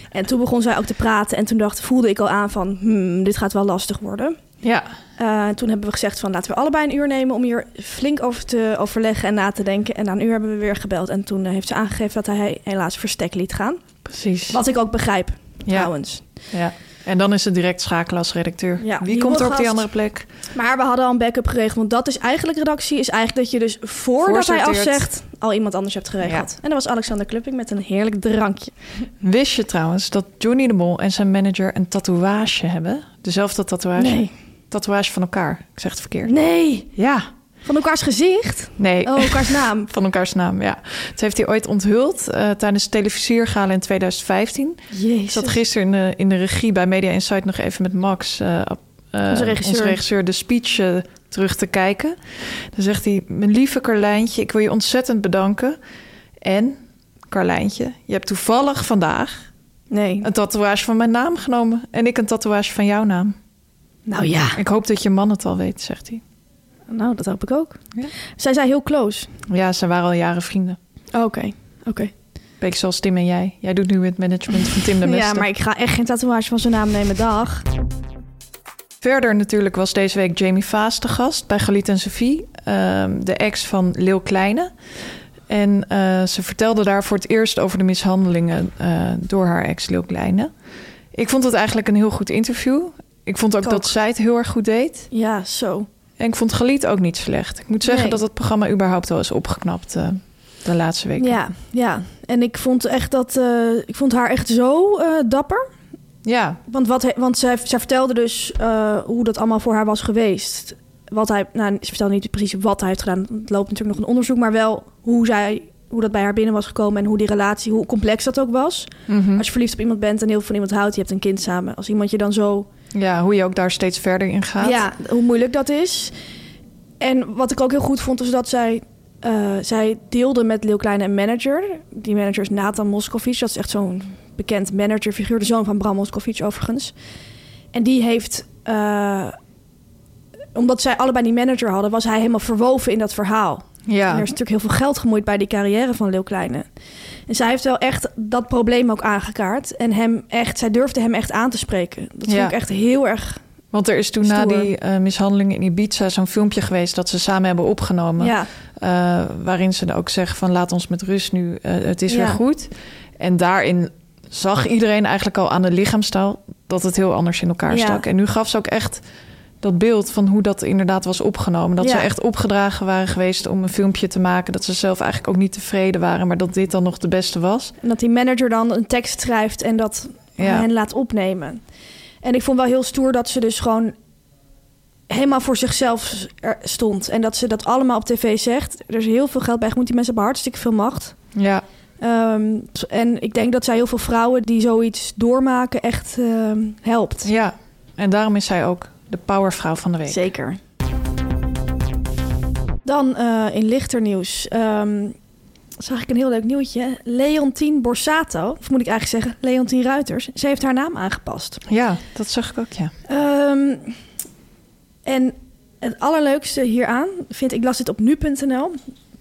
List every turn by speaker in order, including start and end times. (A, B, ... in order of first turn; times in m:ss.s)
0:00.1-0:04.4 A
0:04.6-0:04.9 B
0:05.2-0:13.8 A
0:14.1-0:14.6 B
0:14.5-0:16.2 A
0:15.7-0:15.9 B
0:16.5-0:20.3 B
0:18.8-0:19.9 A
0:20.5-0:28.7 A
0:24.2-0:25.1 B
0:26.2-0:26.5 B
0:29.2-0:36.3 B
0:34.0-0:34.3 A
0:36.2-0:36.9 A
0:37.0-0:37.3 B
0:37.6-0:39.9 A
0:38.8-0:55.8 B
0:44.9-0:45.6 A
0:49.3-0:50.0 A
0:56.4-0:59.5 B
0:59.9-1:00.3 A
1:00.2-1:03.4 B
1:04.1-1:04.6 A
1:04.6-1:06.2 B
1:06.9-1:07.8 A
1:08.4-1:09.3 A
1:09.5-1:10.8 B
1:11.1-1:12.1 A
1:12.6-1:15.5 B
1:15.0-1:17.6 A
1:19.0-1:24.7 B
1:25.5-1:30.5 B
1:31.1-1:35.1 B
1:33.6-1:33.9 A
1:35.1-1:35.9 A
1:36.2-1:41.4 B
1:37.8-1:38.2 A
1:41.2-1:45.7 A
1:46.2-1:46.6 B
1:46.7-2:02.7 A
1:59.1-1:59.4 B
2:02.9-2:04.8 B
2:04.6-2:06.2 A
2:07.0-2:16.9 A
2:17.7-2:19.4 A
2:20.6-2:26.7 A
2:23.9-2:24.3 B
2:27.3-2:33.4 A
2:32.3-2:32.6 B
2:33.7-2:49.0 B
2:34.2-2:34.7 A
2:38.2-2:38.5 A
2:42.1-2:42.4 A
2:47.7-2:48.0 A
2:49.6-2:57.7 B
2:51.8-2:52.1 A
2:57.8-3:01.6 A
3:00.4-3:00.7 B
3:02.2-3:03.9 A
3:05.1-3:11.2 A
3:11.4-3:11.6 B
3:12.0-3:17.3 A
3:17.2-3:20.2 B
3:20.1-3:20.6 A
3:22.8-3:25.2 A
3:25.8-3:31.6 A
3:31.7-3:32.9 B
3:33.1-3:34.0 A
3:35.0-3:38.8 A